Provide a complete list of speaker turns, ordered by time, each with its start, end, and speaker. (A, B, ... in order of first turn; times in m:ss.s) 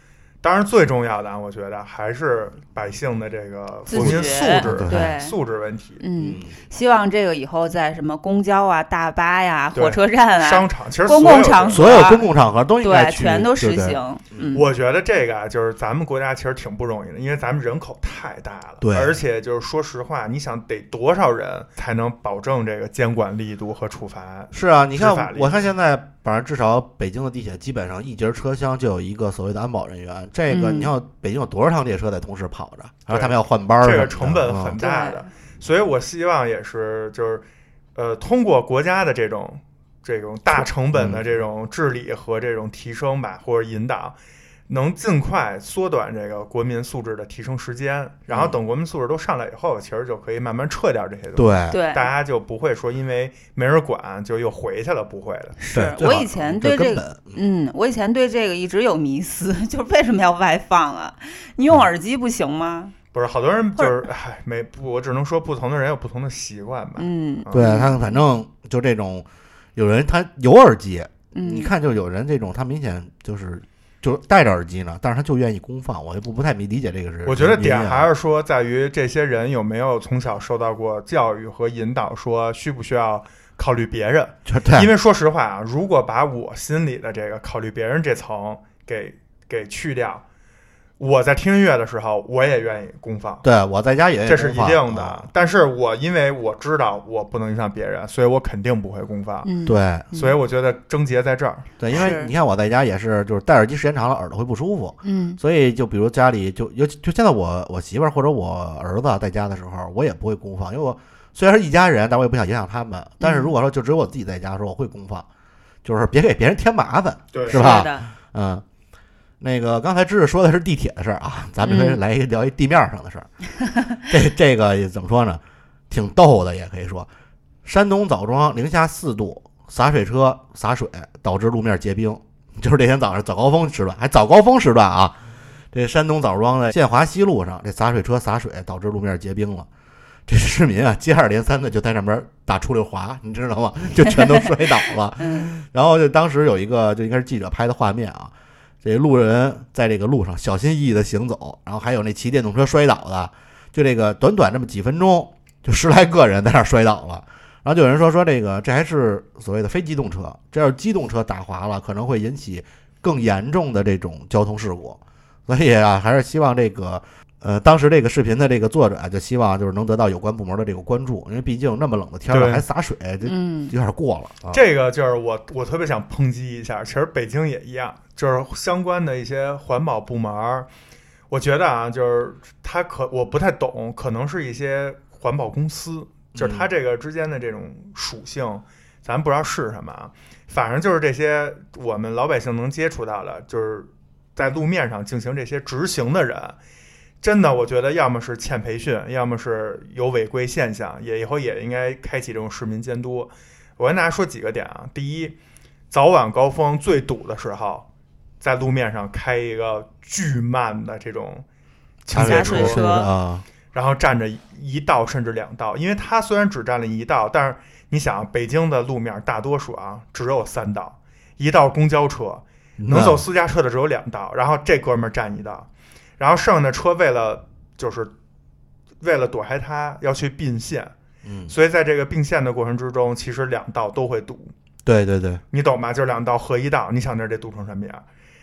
0:00.4-0:06.0 A
0:03.9-0:05.3 B
0:03.9-0:05.2 C
0:06.0-0:12.2 B
0:06.2-0:06.6 C
0:09.7-0:12.1 A
0:11.7-0:14.6 C
0:12.8-0:14.6 B
0:14.5-0:25.7 A
0:18.8-0:19.2 C
0:24.5-0:34.8 C
0:30.5-0:30.9 B
0:33.1-0:44.2 A
0:34.8-0:35.3 B
0:40.5-0:41.3 C
0:44.7-0:55.6 A
0:48.3-0:48.6 C
0:51.4-0:51.8 C
0:51.7-0:52.1 B
0:55.6-1:02.9 B
0:55.7-0:57.4 C
1:03.1-1:07.6 A
1:07.0-1:08.2 B
1:07.5-1:18.1 C
1:11.3-1:11.7 B
1:17.2-1:30.2 A
1:24.4-1:24.9 C
1:31.0-1:33.4 A
1:33.4-1:35.3 C
1:34.2-1:39.5 A
1:39.4-1:40.4 B
1:39.6-1:40.1 C
1:40.1-1:41.7 A
1:41.8-1:55.2 C
1:41.9-1:42.3 B
1:45.0-1:45.4 B
1:53.2-1:53.5 B
1:55.8-1:58.6 C
1:57.3-1:57.6 A
1:57.5-1:58.1 B
1:59.4-2:03.3 C
2:01.6-2:02.0 B
2:03.6-2:03.9 B
2:04.1-2:07.1 C
2:07.6-2:15.2 C
2:15.7-2:19.7 C
2:20.3-2:28.3 C
2:25.2-2:25.5 B
2:28.8-2:54.6 C
2:52.3-2:52.6 A
2:53.2-2:53.7 B
2:54.5-3:00.7 A
3:01.3-3:16.6 A
3:06.3-3:06.7 C
3:17.2-3:25.4 A
3:25.9-3:27.9 A
3:28.4-3:31.4 A
3:32.0-3:32.9 A
3:32.1-3:33.4 C
3:32.1-3:33.1 B
3:33.7-3:45.7 A
3:42.8-3:43.2 C
3:46.2-3:48.1 A
3:49.0-3:50.9 A
3:51.2-3:51.5 C
3:51.5-3:54.5 A
3:54.8-3:55.4 C
3:55.5-3:58.0 A